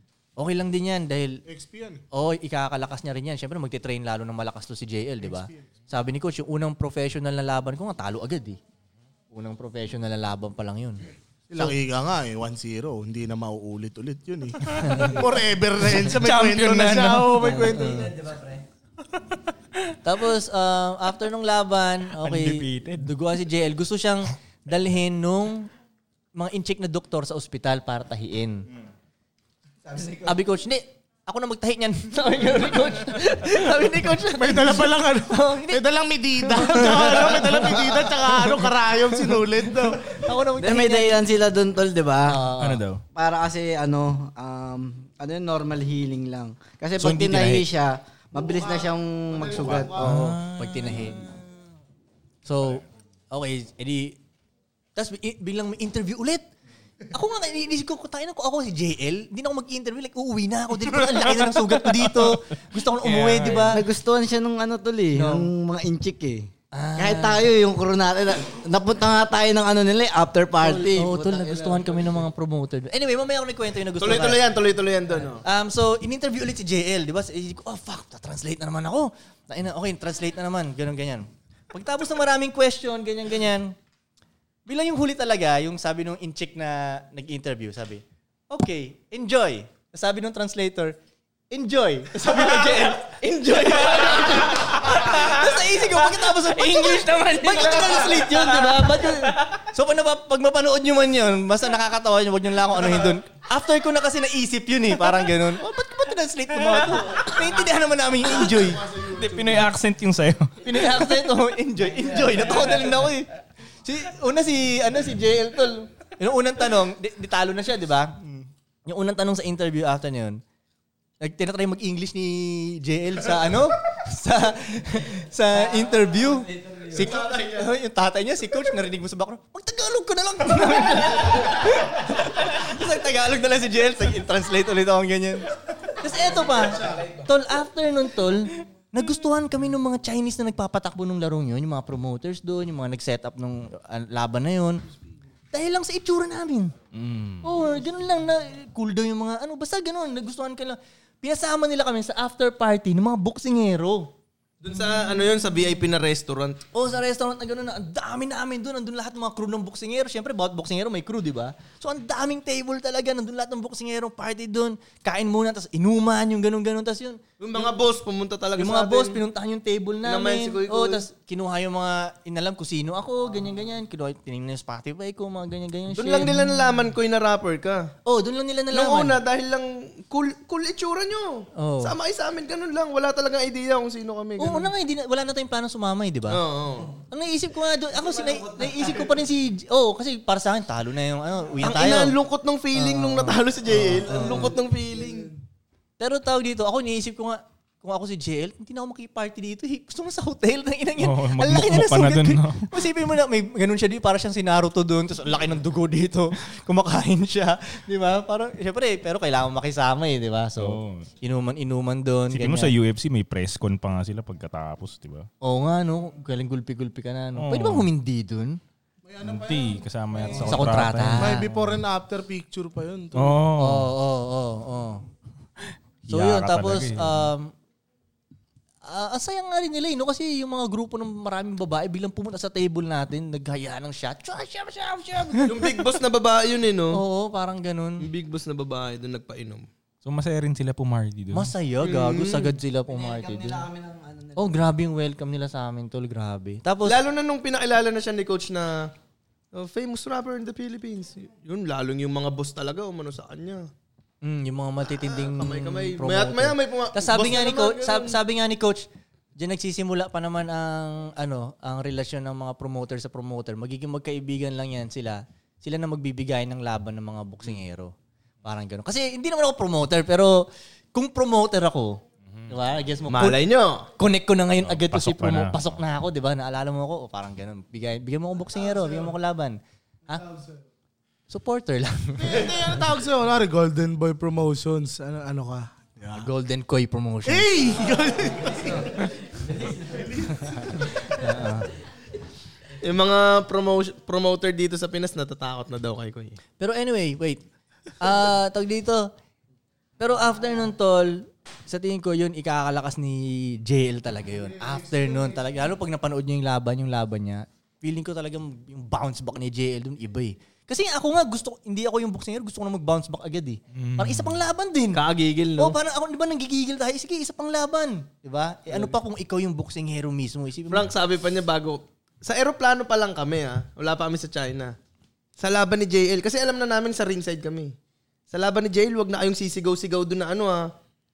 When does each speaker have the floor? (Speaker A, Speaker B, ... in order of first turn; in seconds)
Speaker A: 0.4-1.4, 2.1-8.6, 9.3-11.0, 14.8-15.2, 17.4-18.1, 20.0-25.7, 26.4-28.7, 30.2-35.8, 36.4-38.1, 40.1-41.2, 42.3-42.8, 50.0-51.3, 52.5-54.2, 55.0-56.5, 57.1-63.8, 65.2-65.5, 66.7-67.4, 70.6-74.4, 75.4-83.8, 84.7-91.0, 91.5-108.8, 110.6-113.3, 113.8-120.4, 121.2-144.9, 145.5-146.8, 147.4-154.1, 156.7-167.2, 168.6-176.5, 178.1-179.2, 181.6-181.9, 184.4-186.4, 187.1-192.2, 192.8-194.5, 196.0-212.8, 215.4-218.6, 220.3-221.5, 223.6-225.0, 226.1-227.5, 228.9-235.8, 236.9-238.1, 241.3-243.6, 244.4-247.0, 254.2-258.9, 259.4-267.9, 268.4-273.4, 274.0-280.2, 281.3-282.6, 286.1-287.5, 291.1-291.7, 296.6-297.4, 298.0-299.1, 300.0-315.1, 315.6-320.9
Speaker B: 1.5-2.0, 5.2-5.7, 11.5-18.2, 34.4-40.1, 48.4-50.2, 108.5-109.7, 219.1-220.6, 221.2-223.5, 282.2-286.3, 287.3-289.0, 289.9-290.9, 304.4-305.5
Speaker C: 14.7-15.2, 16.0-17.7, 19.4-19.9, 22.1-23.1, 42.6-43.0, 47.0-47.7, 49.9-51.2, 61.1-62.4, 63.0-63.8, 96.6-97.6, 106.8-107.2, 109.0-110.6, 146.9-147.5, 201.0-202.7, 210.6-211.1, 212.3-215.3, 217.4-217.9, 219.2-221.4, 223.1-223.9, 226.1-227.3, 240.0-241.5, 272.2-272.6, 274.6-275.8, 313.7-314.4
Speaker D: 29.9-30.4, 40.6-42.4, 43.1-50.2, 63.6-72.0, 188.4-188.9, 194.1-194.5, 242.9-244.6
Speaker E: 74.0-75.4, 92.2-94.4, 154.6-156.6, 167.4-169.2, 170.0-171.1, 175.9-177.9, 178.7-184.7, 186.3-186.9, 191.6-195.3, 235.4-237.0, 238.0-239.7, 241.8-242.5, 246.8-248.9, 249.5-253.7, 255.1-258.2, 273.1-273.9, 292.8-296.4, 314.9-315.8, 318.7-318.9, 320.7-324.7, 325.4-327.8, 328.3-330.7